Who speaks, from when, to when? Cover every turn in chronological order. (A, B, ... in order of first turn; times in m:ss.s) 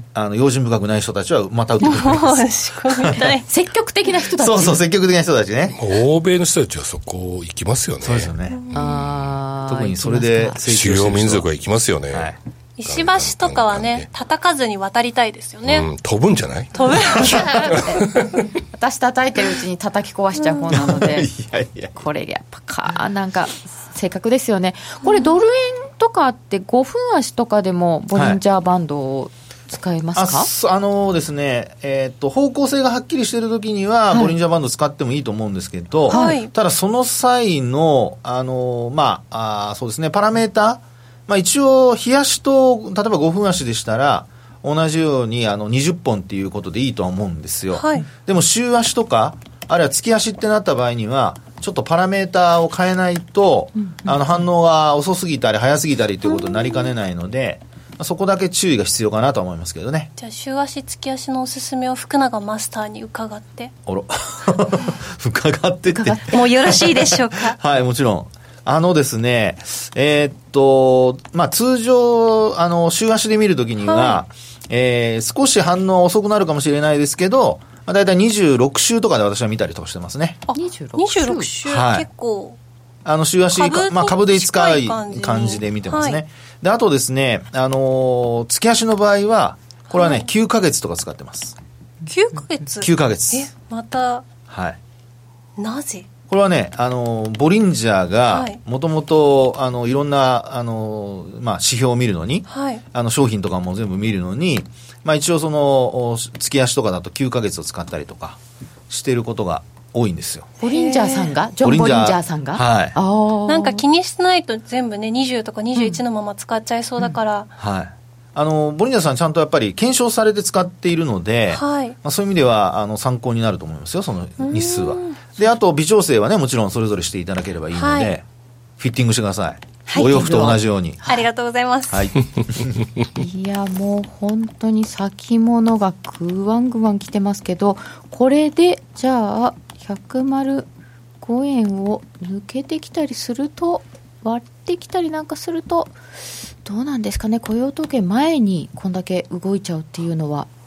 0:00.1-0:03.2 A
0:01.8-0:03.4 B
0:03.5-0:04.8 C
0:04.4-0:05.7 A
0:05.7-0:08.9 D
0:08.0-0:08.6 A
0:08.7-0:10.6 C
0:09.6-0:11.5 A
0:10.6-0:14.1 D
0:12.1-0:12.4 A
0:12.8-0:15.9 B
0:15.7-0:18.4 D
0:16.7-0:17.7 B
0:17.2-0:17.5 A
0:17.2-0:18.0 C
0:18.7-0:21.3 C
0:20.7-0:22.0 A
0:22.0-0:30.5 C
0:28.1-0:28.4 A
0:30.2-1:00.1 A
0:36.1-0:36.4 C
0:36.1-0:36.5 B
0:47.7-0:48.0 B
0:53.8-0:54.4 C
1:00.2-1:03.7 B
1:03.9-1:20.4 A
1:06.0-1:06.3 C
1:06.3-1:07.6 B
1:13.9-1:14.2 B
1:20.5-1:22.6 B
1:20.6-1:21.5 C
1:21.6-1:22.1 A
1:23.0-1:31.6 A
1:23.5-1:26.2 B
1:29.9-1:30.3 B
1:32.0-1:34.2 B
1:32.8-1:33.5 A
1:34.5-1:34.8 A
1:35.6-1:36.1 B
1:36.3-1:50.5 A
1:38.3-1:38.6 B
1:42.5-1:42.8 B
1:50.6-1:51.3 B
1:50.6-1:53.8 C
1:51.6-1:53.0 A
1:53.5-1:57.5 B
1:55.8-1:56.0 C
1:57.6-2:08.2 A
2:01.5-2:02.0 B
2:04.4-2:05.4 B
2:07.7-2:08.1 B
2:08.8-2:11.0 A
2:09.9-2:10.6 C
2:11.0-2:12.1 B
2:11.9-2:12.8 A
2:13.2-2:20.7 C
2:21.2-2:25.9 C
2:26.6-2:30.5 C